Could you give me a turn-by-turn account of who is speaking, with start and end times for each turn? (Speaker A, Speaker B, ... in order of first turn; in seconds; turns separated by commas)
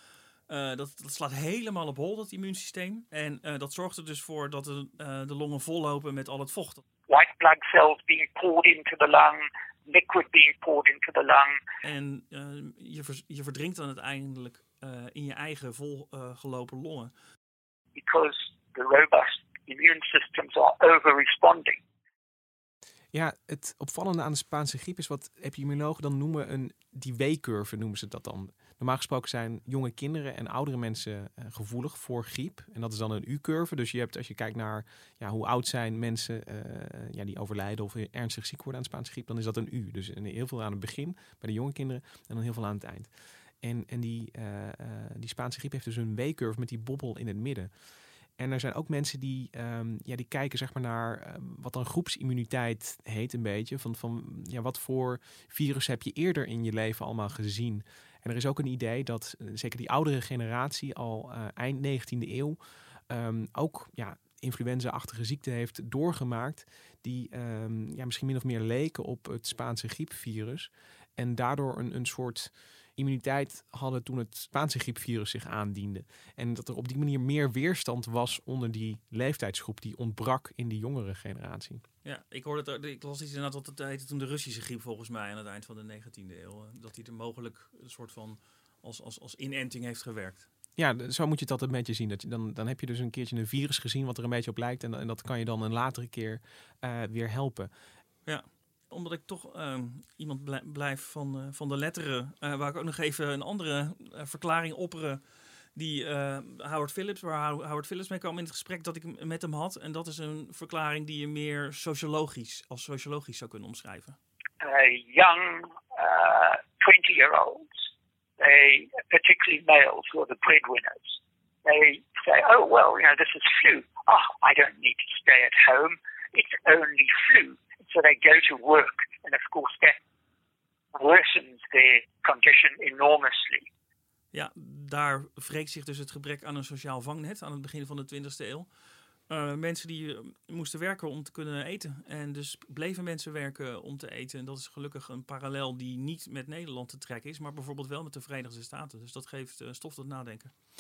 Speaker A: 0.5-6.8, Speaker B: 7.1-11.6, Speaker A: 11.8-17.1, Speaker B: 17.9-21.8, Speaker C: 23.1-43.1, Speaker C: 43.6-47.7, Speaker C: 48.4-62.6, Speaker C: 63.1-81.8, Speaker A: 82.0-90.5, Speaker C: 90.8-97.7, Speaker A: 98.3-105.2, Speaker A: 105.8-114.2, Speaker B: 114.6-117.7, Speaker B: 118.4-130.0, Speaker B: 130.9-133.7, Speaker A: 134.3-138.7, Speaker A: 139.3-150.5